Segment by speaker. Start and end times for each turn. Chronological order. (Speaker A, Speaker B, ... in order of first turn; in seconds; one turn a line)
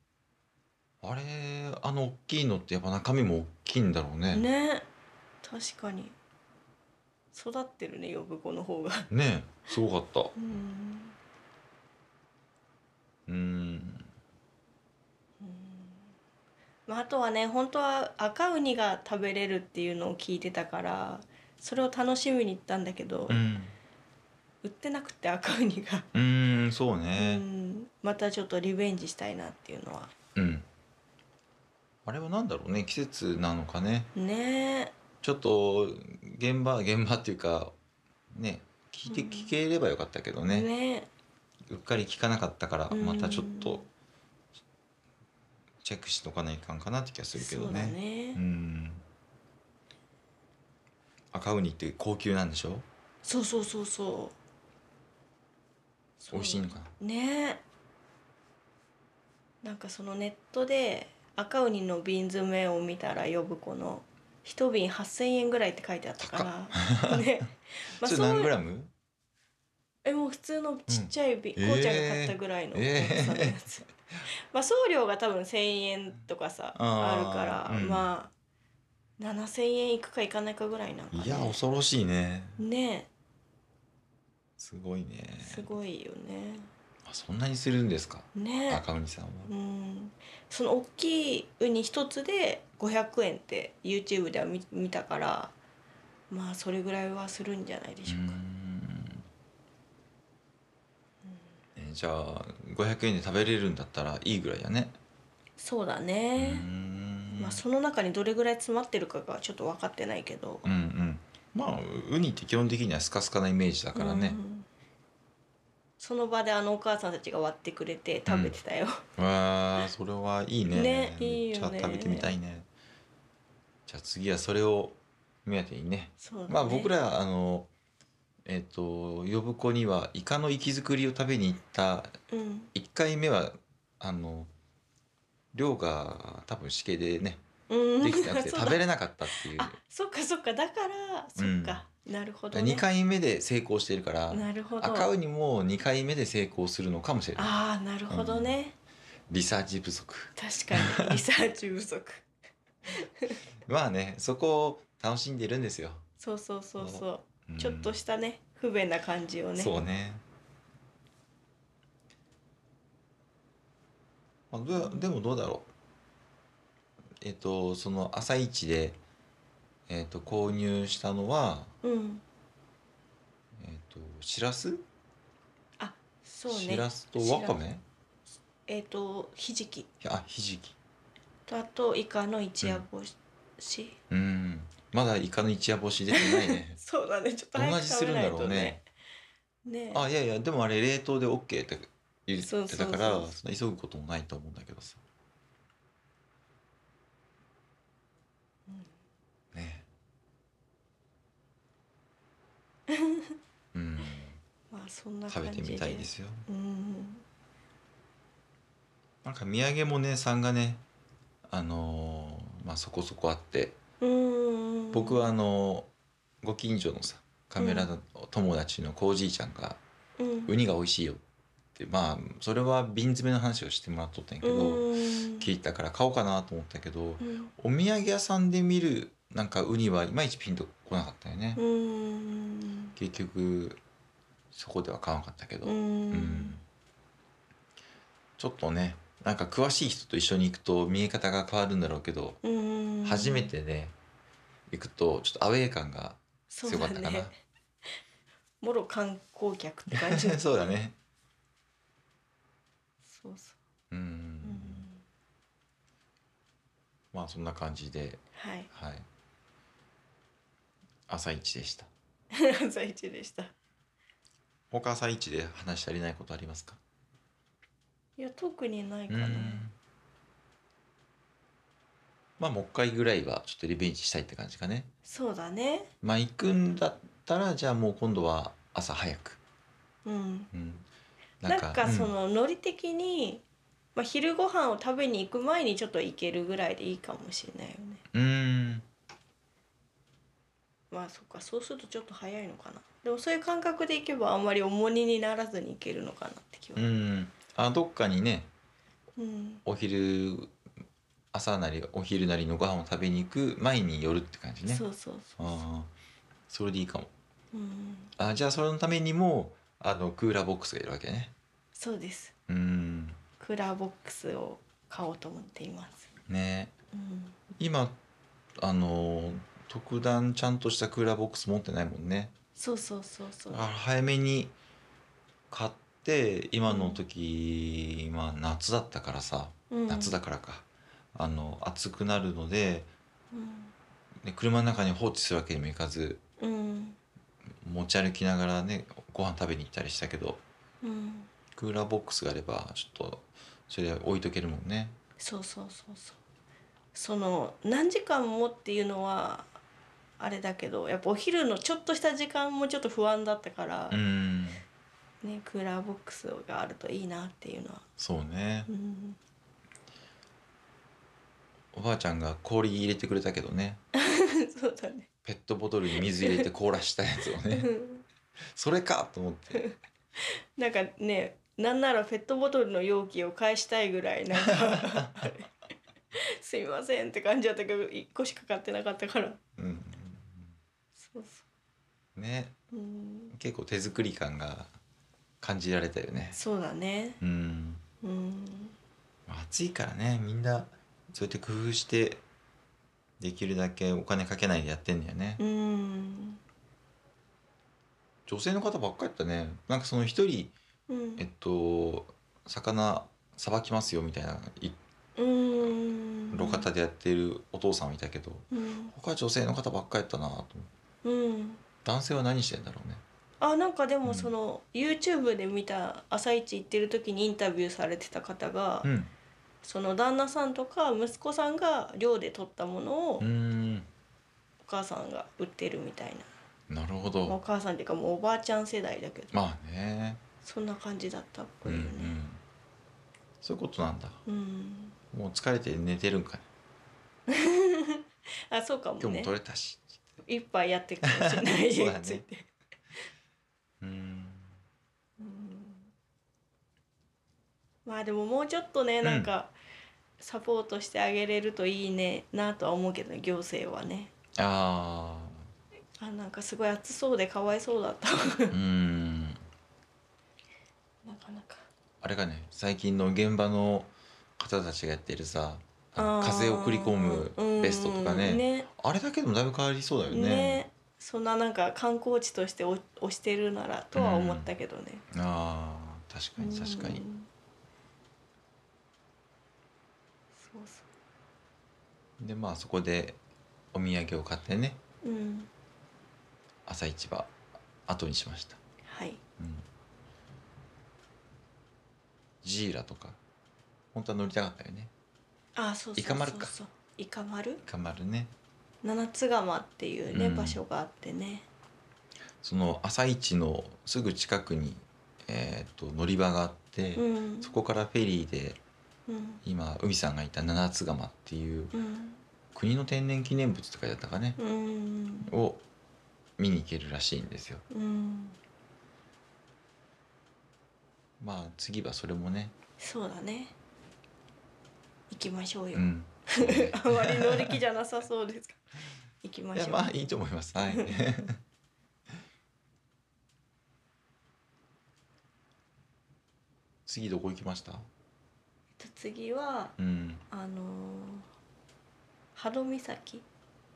Speaker A: 1.0-4.5
Speaker B: 4.3-4.9
Speaker B: 5.4-6.1
Speaker B: 7.3-9.1
Speaker A: 9.1-10.3
Speaker B: 10.3-11.2
Speaker A: 13.3-14.1
Speaker B: 15.4-16.1
Speaker B: 16.9-23.4
Speaker A: 23.3-23.8
Speaker B: 24.6-26.1
Speaker A: 26.1-27.4
Speaker B: 27.1-30.1
Speaker A: 30.3-30.7
Speaker A: 32.0-34.1
Speaker B: 34.1-34.9
Speaker A: 35.2-37.7
Speaker A: 38.3-40.7
Speaker B: 39.0-39.5
Speaker B: 40.5-41.1
Speaker A: 41.7-43.8
Speaker B: 42.9-43.9
Speaker A: 45.8-49.0
Speaker B: 47.3-48.4
Speaker A: 51.3-52.9
Speaker B: 53.2-54.3
Speaker B: 56.2-57.6
Speaker A: 56.3-56.9
Speaker B: 59.6-68.5
Speaker A: 66.2-67.3
Speaker A: 68.0-68.9
Speaker B: 70.0-78.3
Speaker A: 70.9-73.6
Speaker A: 76.7-78.1
Speaker B: 79.2-81.6
Speaker A: 81.1-82.6
Speaker B: 82.6-83.1
Speaker A: 84.6-85.7
Speaker B: 85.4-86.7
Speaker A: 87.0-89.5
Speaker B: 88.3-88.8
Speaker B: 89.5-95.5
Speaker B: 96.3-98.4
Speaker A: 98.1-99.2
Speaker A: 101.8-105.0
Speaker B: 105.6-106.6
Speaker A: 106.4-107.6
Speaker B: 107.3-110.7
Speaker A: 110.6-114.4
Speaker B: 113.9-114.7
Speaker B: 116.0-119.0
Speaker A: 118.3-118.6
Speaker A: 119.2-122.7
Speaker B: 120.7-122.3
Speaker A: 123.9-127.7
Speaker B: 126.2-126.9
Speaker A: 128.4-132.2
Speaker B: 132.3-132.7
Speaker A: 132.7-134.5
Speaker A: 135.5-137.4
Speaker B: 137.7-142.8
Speaker A: 138.0-139.8
Speaker A: 141.4-141.8
Speaker A: 142.5-147.6
Speaker B: 144.3-145.1
Speaker B: 147.3-148.8
Speaker A: 148.1-148.6
Speaker A: 149.3-151.2
Speaker B: 150.3-152.2
Speaker B: 152.9-153.4
Speaker A: 153.6-156.0
Speaker B: 156.2-159.8
Speaker A: 156.8-158.0
Speaker A: 159.6-160.2
Speaker A: 164.5-165.7
Speaker B: 164.8-165.1
Speaker A: 167.2-169.0
Speaker A: 169.9-171.7
Speaker B: 171.8-172.2
Speaker A: 173.6-174.8
Speaker B: 175.8-177.6
Speaker A: 176.5-177.8
Speaker B: 178.7-179.9
Speaker A: 180.0-180.8
Speaker B: 181.5-184.0
Speaker A: 184.1-186.8
Speaker B: 186.1-188.8
Speaker A: 187.5-188.8
Speaker B: 189.6-190.1
Speaker A: 189.9-195.0
Speaker B: 192.4-193.3
Speaker A: 199.5-199.9
Speaker B: 202.9-203.3
Speaker A: 203.7-204.4
Speaker B: 204.7-207.2
Speaker A: 205.3-206.4
Speaker A: 209.2-210.8
Speaker A: 211.4-213.8
Speaker B: 214.0-215.2
Speaker A: 214.9-215.9
Speaker A: 216.4-219.8
Speaker B: 217.6-217.9
Speaker B: 220.2-220.5
Speaker A: 220.5-221.2
Speaker A: 221.7-231.6
Speaker B: 224.4-225.5
Speaker B: 227.2-227.5
Speaker B: 231.6-232.9
Speaker A: 233.0-233.8
Speaker A: 234.5-236.6
Speaker B: 235.6-236.6
Speaker A: 238.4-242.4
Speaker B: 242.4-243.5
Speaker A: 243.0-243.9
Speaker A: 244.7-247.3
Speaker B: 246.5-247.3
Speaker B: 248.6-250.5
Speaker A: 249.9-250.9
Speaker B: 253.1-253.6
Speaker A: 253.9-254.9
Speaker B: 254.4-255.0
Speaker A: 257.1-259.1
Speaker B: 258.3-258.7
Speaker A: 261.1-261.9
Speaker B: 262.3-263.5
Speaker A: 264.7-266.8
Speaker B: 268.2-269.6
Speaker A: 269.1-269.7
Speaker A: 272.4-274.9
Speaker B: 275.1-275.9
Speaker A: 276.0-279.4
Speaker B: 280.0-280.5
Speaker A: 280.5-280.9
Speaker A: 281.4-282.1
Speaker B: 281.4-283.4
Speaker B: 283.9-288.0
Speaker A: 288.1-288.9
Speaker B: 290.9-296.9
Speaker A: 296.7-298.5
Speaker B: 299.2-299.6
Speaker A: 299.6-300.5
Speaker A: 301.3-304.8
Speaker B: 304.6-305.6
Speaker A: 305.4-305.9
Speaker A: 306.5-307.1
Speaker B: 307.5-308.1
Speaker A: 308.2-311.3
Speaker B: 311.7-312.3
Speaker A: 312.5-313.2
Speaker B: 313.4-316.1
Speaker A: 316.3-316.7
Speaker B: 316.9-317.4
Speaker A: 317.6-318.0
Speaker A: 318.6-322.3
Speaker B: 322.6-323.7
Speaker A: 323.5-324.5
Speaker A: 325.5-332.9
Speaker B: 326.7-327.0
Speaker B: 329.7-330.2
Speaker B: 333.3-333.7
Speaker A: 334.2-336.2
Speaker B: 336.4-337.0
Speaker A: 337.6-340.4
Speaker B: 340.8-341.3
Speaker A: 341.5-345.0
Speaker B: 345.2-346.2
Speaker B: 346.9-349.5
Speaker B: 350.2-354.0
Speaker A: 353.9-354.6
Speaker B: 355.2-357.9
Speaker A: 358.0-358.7
Speaker B: 358.7-359.2
Speaker A: 361.7-363.8
Speaker B: 363.9-365.1
Speaker A: 365.2-367.7
Speaker B: 365.9-366.4
Speaker B: 367.4-368.0
Speaker A: 368.5-369.6
Speaker B: 369.5-375.5
Speaker A: 374.3-375.3
Speaker B: 376.1-379.4
Speaker A: 379.6-380.5
Speaker B: 381.0-381.4
Speaker A: 382.1-382.6
Speaker B: 382.7-383.3
Speaker A: 383.3-384.7
Speaker A: 385.4-386.4
Speaker B: 386.3-387.2
Speaker A: 387.2-387.8
Speaker B: 388.0-388.8
Speaker A: 389.3-392.2
Speaker A: 393.2-395.4
Speaker B: 395.4-396.4
Speaker A: 398.3-400.5
Speaker B: 400.9-401.2
Speaker A: 401.2-404.8
Speaker B: 405.1-406.7
Speaker A: 406.3-410.7
Speaker B: 408.5-408.9
Speaker B: 411.0-411.6
Speaker A: 411.8-413.0
Speaker B: 413.4-418.9
Speaker A: 414.0-414.3
Speaker A: 418.8-419.1
Speaker B: 419.6-423.2
Speaker A: 423.2-423.9
Speaker B: 424.6-426.3
Speaker A: 426.7-427.4
Speaker B: 427.2-429.3
Speaker A: 429.3-430.2
Speaker B: 430.4-432.2
Speaker A: 431.6-432.4
Speaker A: 433.4-434.2
Speaker B: 434.2-434.9
Speaker A: 435.1-436.4
Speaker B: 437.3-439.3
Speaker A: 439.0-440.0
Speaker B: 440.2-442.5
Speaker A: 441.0-442.2
Speaker A: 443.8-444.5
Speaker B: 445.2-445.9
Speaker B: 447.8-449.5
Speaker A: 449.0-449.3
Speaker B: 450.2-454.1
Speaker A: 454.3-455.5
Speaker B: 456.0-458.6
Speaker A: 458.5-459.4
Speaker B: 461.0-461.7
Speaker A: 462.0-470.6
Speaker B: 466.0-468.7
Speaker B: 470.1-475.0
Speaker A: 473.9-474.5
Speaker A: 475.1-477.0
Speaker B: 476.4-477.3
Speaker B: 480.4-480.9
Speaker A: 482.2-483.2
Speaker A: 483.7-484.8
Speaker B: 485.0-485.5
Speaker A: 486.6-487.3
Speaker A: 487.9-488.6
Speaker B: 488.8-489.2
Speaker A: 489.4-489.6
Speaker A: 492.4-493.2
Speaker A: 493.9-494.9
Speaker B: 495.6-497.6
Speaker A: 495.9-496.5
Speaker A: 497.6-498.3
Speaker B: 498.8-501.5
Speaker A: 500.1-500.6
Speaker A: 502.4-508.6
Speaker B: 506.9-507.6
Speaker B: 509.1-509.4
Speaker A: 509.4-511.7
Speaker B: 511.7-512.2
Speaker A: 512.5-514.4
Speaker B: 514.4-515.3
Speaker A: 515.3-515.6
Speaker A: 516.4-517.6
Speaker B: 517.7-518.4
Speaker A: 521.2-522.5
Speaker B: 522.8-523.5
Speaker B: 525.1-528.6
Speaker A: 525.7-527.6
Speaker B: 529.2-529.9
Speaker A: 529.5-531.4
Speaker B: 530.6-531.0
Speaker A: 536.9-537.9
Speaker B: 538.8-539.8
Speaker A: 539.8-540.2
Speaker B: 540.3-541.3
Speaker B: 542.3-543.2